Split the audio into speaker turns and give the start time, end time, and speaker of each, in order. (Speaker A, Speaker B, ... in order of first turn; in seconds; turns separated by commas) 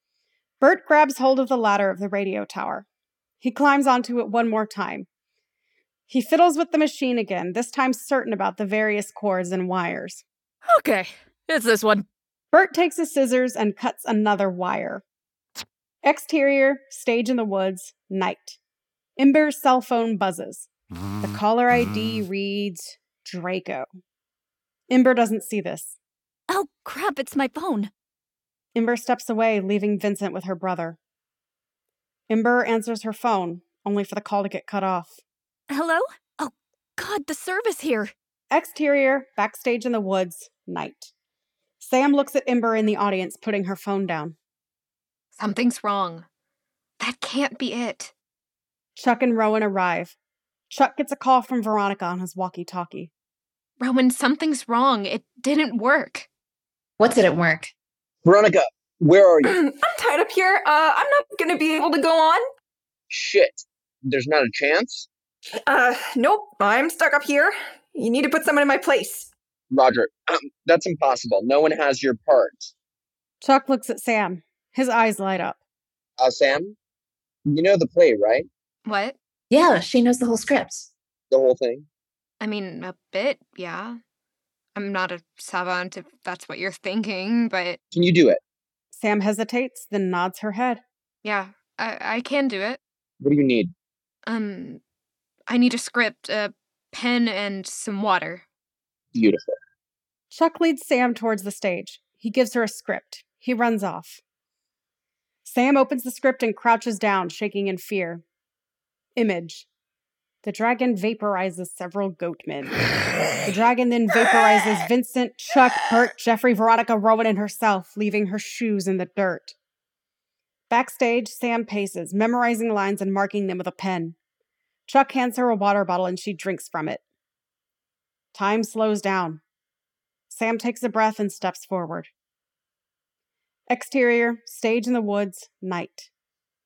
Speaker A: 0.6-2.9, Speaker A: 3.4-5.1, Speaker A: 6.1-10.2, Speaker B: 10.7-12.0, Speaker A: 12.5-15.0, Speaker A: 16.0-18.6, Speaker A: 19.2-20.7, Speaker A: 21.2-23.9, Speaker A: 24.9-26.0, Speaker B: 26.5-27.9, Speaker A: 28.7-31.0, Speaker A: 32.3-35.2, Speaker B: 35.7-38.1, Speaker A: 38.5-41.1, Speaker A: 41.8-44.4, Speaker C: 45.4-46.2, Speaker C: 47.0-48.1, Speaker A: 49.0-50.1, Speaker A: 50.7-53.1, Speaker C: 53.8-56.3, Speaker D: 57.0-57.7, Speaker E: 58.2-59.5, Speaker F: 59.4-62.4, Speaker E: 63.1-65.1, Speaker F: 65.7-69.3, Speaker E: 69.7-72.7, Speaker A: 73.4-75.6, Speaker E: 76.2-76.7, Speaker E: 77.5-78.5, Speaker C: 78.8-79.1, Speaker D: 79.5-80.9, Speaker E: 81.3-81.9, Speaker C: 82.4-84.0, Speaker C: 84.8-87.8, Speaker E: 87.9-88.4, Speaker A: 88.9-90.8, Speaker C: 91.2-92.8, Speaker E: 93.2-93.7, Speaker C: 94.3-94.8, Speaker C: 95.5-98.4, Speaker E: 99.1-99.5, Speaker A: 100.3-104.2, Speaker A: 105.4-108.2, Speaker A: 109.2-109.7, Speaker A: 110.4-112.8, Speaker A: 113.4-119.5, Speaker A: 120.7-124.2, Speaker A: 124.9-127.0, Speaker A: 128.3-129.4, Speaker A: 130.3-132.1, Speaker A: 133.7-136.1